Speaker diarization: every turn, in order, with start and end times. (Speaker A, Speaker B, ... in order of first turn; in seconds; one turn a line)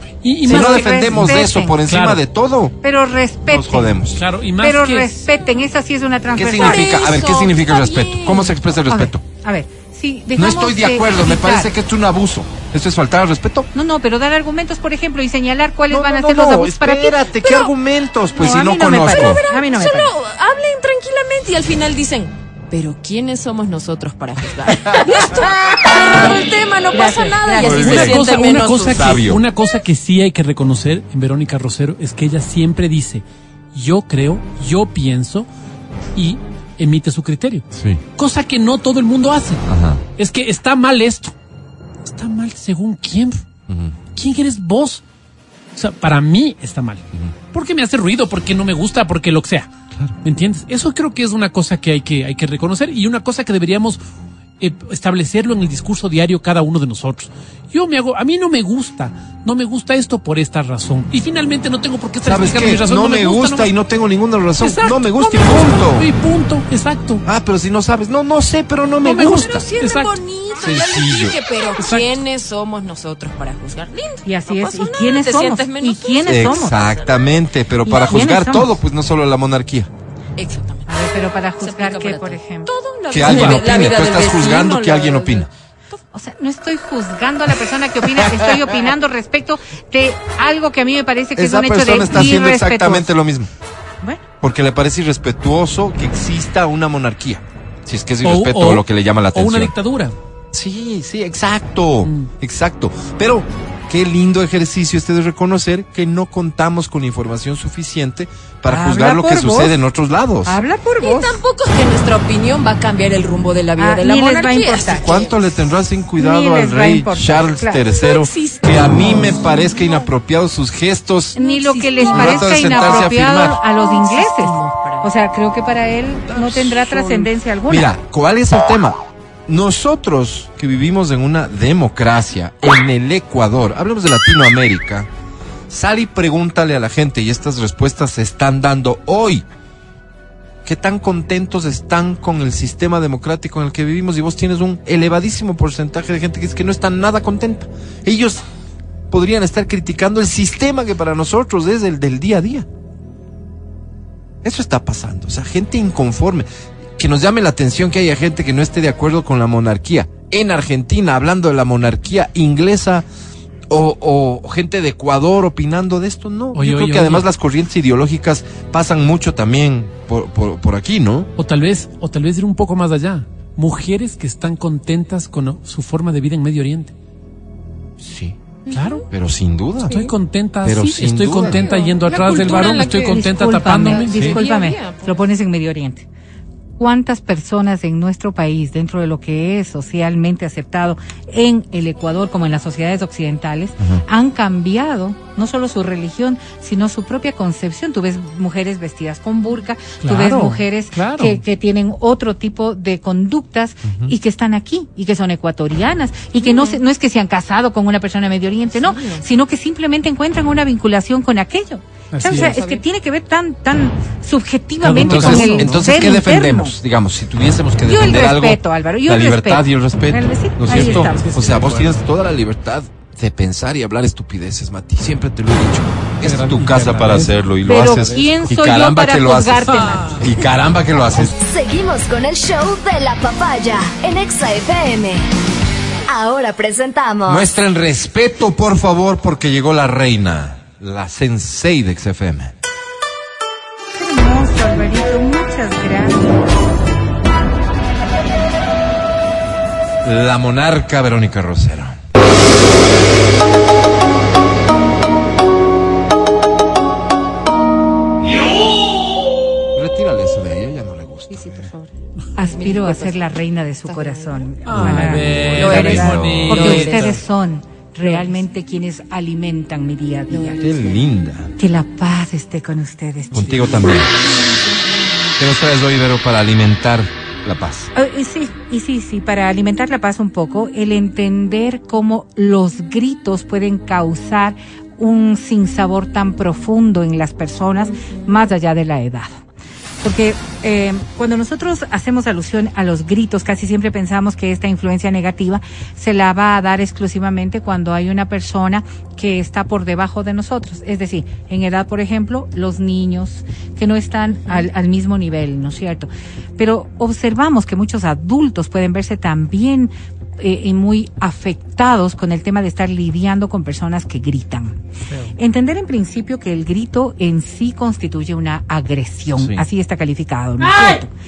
Speaker A: 0.2-2.2
Speaker B: 0.4-2.8
Speaker C: 0.5-1.8
Speaker C: 2.8-4.0
Speaker B: 3.4-4.2
Speaker A: 4.1-5.2
Speaker C: 4.6-6.9
Speaker B: 6.3-9.2
Speaker D: 6.5-8.6
Speaker C: 8.9-11.7
Speaker B: 10.3-13.7
Speaker C: 13.7-17.2
Speaker B: 15.9-19.4
Speaker D: 17.4-17.7
Speaker D: 18.3-29.2
Speaker C: 18.4-20.1
Speaker C: 26.9-28.2
Speaker B: 27.6-28.2
Speaker A: 27.7-35.5
Speaker B: 28.8-29.4
Speaker A: 36.1-37.6
Speaker B: 37.7-38.0
Speaker A: 38.2-39.6
Speaker B: 39.7-40.0
Speaker A: 40.2-41.3
Speaker A: 42.0-43.4
Speaker B: 43.7-44.0
Speaker A: 44.1-45.0
Speaker A: 45.8-49.7
Speaker A: 50.2-54.0
Speaker A: 54.6-63.7
Speaker B: 62.2-66.1
Speaker A: 64.6-67.2
Speaker B: 67.2-69.7
Speaker D: 69.0-77.1
Speaker A: 69.1-70.2
Speaker B: 70.5-71.4
Speaker A: 71.8-72.1
Speaker C: 74.2-76.8
Speaker B: 76.2-79.9
Speaker C: 77.8-78.7
Speaker D: 80.4-86.0
Speaker C: 80.9-82.7
Speaker B: 83.1-85.5
Speaker A: 83.2-83.7
Speaker C: 86.1-93.1
Speaker B: 88.2-88.5
Speaker B: 91.3-93.5
Speaker B: 94.4-99.7
Speaker A: 98.2-100.2
Speaker B: 100.5-110.6
Speaker A: 102.0-102.3
Speaker C: 108.6-109.7
Speaker C: 110.5-111.4
Speaker D: 111.0-115.6
Speaker C: 113.8-115.0
Speaker B: 114.8-121.3
Speaker C: 116.2-117.8
Speaker D: 117.9-120.1
Speaker D: 121.3-123.1
Speaker C: 121.3-127.9
Speaker B: 122.1-123.6
Speaker D: 123.7-125.1
Speaker D: 126.3-127.3
Speaker B: 127.7-135.1
Speaker B: 135.7-139.4
Speaker B: 140.6-148.4
Speaker B: 149.1-152.7
Speaker B: 154.4-163.1
Speaker B: 163.7-171.3
Speaker A: 166.5-167.3
Speaker A: 171.4-176.9
Speaker B: 178.0-178.4
Speaker D: 178.7-179.0
Speaker A: 178.7-179.0
Speaker B: 179.1-180.1
Speaker A: 179.8-184.4
Speaker B: 180.6-181.7
Speaker D: 181.4-185.2
Speaker C: 183.1-186.1
Speaker C: 186.8-216.7
Speaker A: 200.0-201.4
Speaker B: 203.8-204.1
Speaker D: 206.4-206.8
Speaker D: 208.7-209.2
Speaker A: 212.1-212.6
Speaker D: 212.2-212.8
Speaker A: 214.8-215.8
Speaker B: 214.9-231.3
Speaker C: 217.8-221.3
Speaker A: 220.7-222.0
Speaker A: 226.2-228.5
Speaker C: 227.6-230.2
Speaker A: 229.7-230.3
Speaker E: 231.2-235.3
Speaker E: 236.1-237.4
Speaker B: 237.2-242.5
Speaker C: 243.9-246.4
Speaker B: 250.0-252.0
Speaker B: 259.7-261.7
Speaker D: 261.3-263.2
Speaker C: 262.4-270.6
Speaker D: 263.9-267.2
Speaker A: 264.6-267.2
Speaker B: 264.7-266.7
Speaker D: 268.0-268.3
Speaker D: 270.3-270.8
Speaker B: 270.6-271.5
Speaker C: 271.6-273.9
Speaker B: 273.3-274.1
Speaker D: 274.3-274.6
Speaker B: 275.4-277.9
Speaker C: 277.9-289.4
Speaker C: 290.0-314.8
Speaker A: 315.1-315.3
Speaker C: 315.4-321.1
Speaker B: 319.4-319.6
Speaker A: 320.6-321.0